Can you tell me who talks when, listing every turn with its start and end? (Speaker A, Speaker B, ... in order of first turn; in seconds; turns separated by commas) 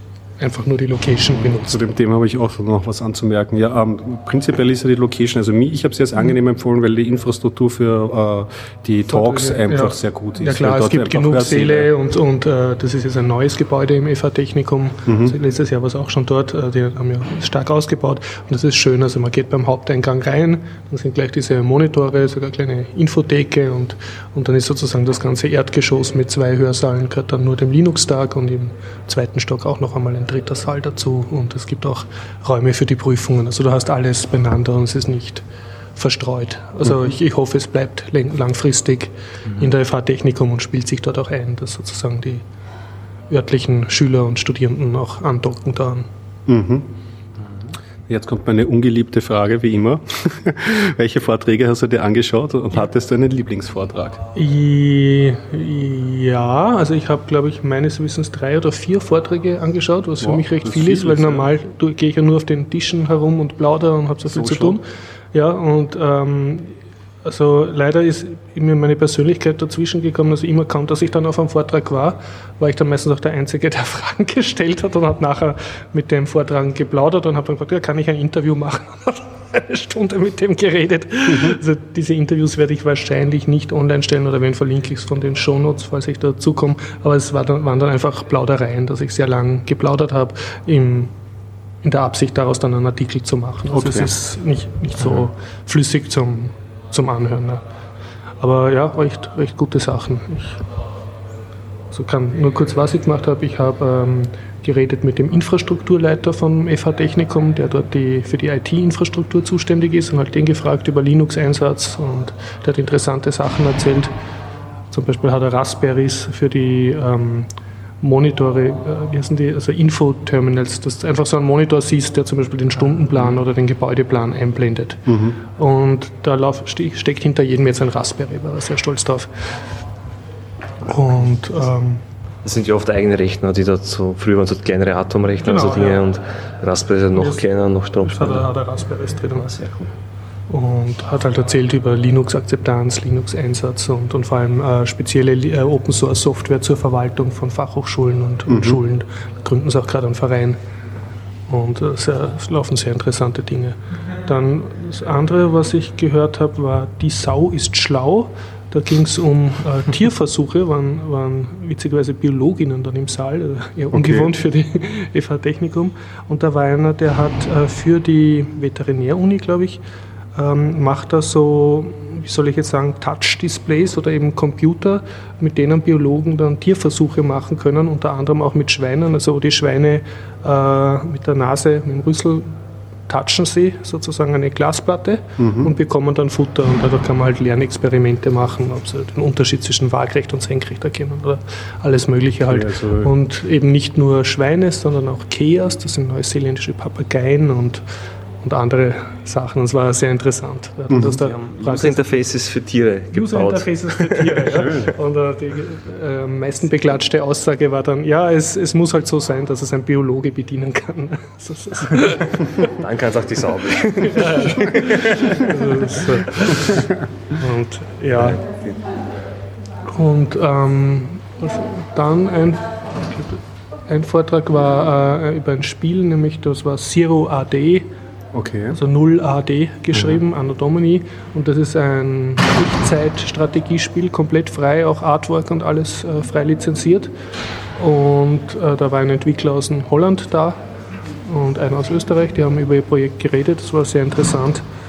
Speaker A: 0.4-1.8, Speaker B: 1.4-11.9, Speaker A: 9.1-35.5, Speaker B: 15.1-15.3, Speaker A: 36.0-42.4, Speaker A: 43.3-46.1, Speaker B: 46.5-46.9, Speaker B: 48.1-54.2, Speaker A: 54.4-91.1, Speaker B: 60.2-61.5, Speaker B: 64.2-64.8, Speaker B: 81.3-81.6, Speaker A: 91.8-97.6, Speaker B: 93.7-94.1, Speaker A: 98.4-100.6, Speaker A: 101.9-114.1, Speaker A: 114.9-117.5, Speaker A: 118.0-129.4, Speaker B: 125.1-125.4, Speaker A: 130.9-132.0, Speaker C: 132.4-138.5, Speaker A: 135.4-136.0, Speaker A: 137.2-137.4, Speaker A: 138.0-139.6, Speaker C: 139.4-139.8, Speaker A: 140.5-150.6, Speaker B: 148.5-148.8, Speaker A: 151.5-169.8, Speaker B: 163.9-164.3, Speaker A: 170.4-182.6, Speaker A: 183.1-197.8, Speaker B: 185.4-185.7, Speaker B: 192.5-193.1, Speaker A: 198.4-202.0, Speaker C: 201.2-204.7, Speaker A: 203.1-212.7, Speaker B: 204.6-204.9, Speaker C: 212.6-216.7, Speaker A: 214.1-218.4, Speaker C: 218.1-218.9, Speaker A: 219.9-227.9, Speaker B: 228.3-228.8, Speaker A: 228.7-237.1, Speaker B: 229.9-230.2, Speaker A: 237.8-240.6, Speaker A: 241.2-244.7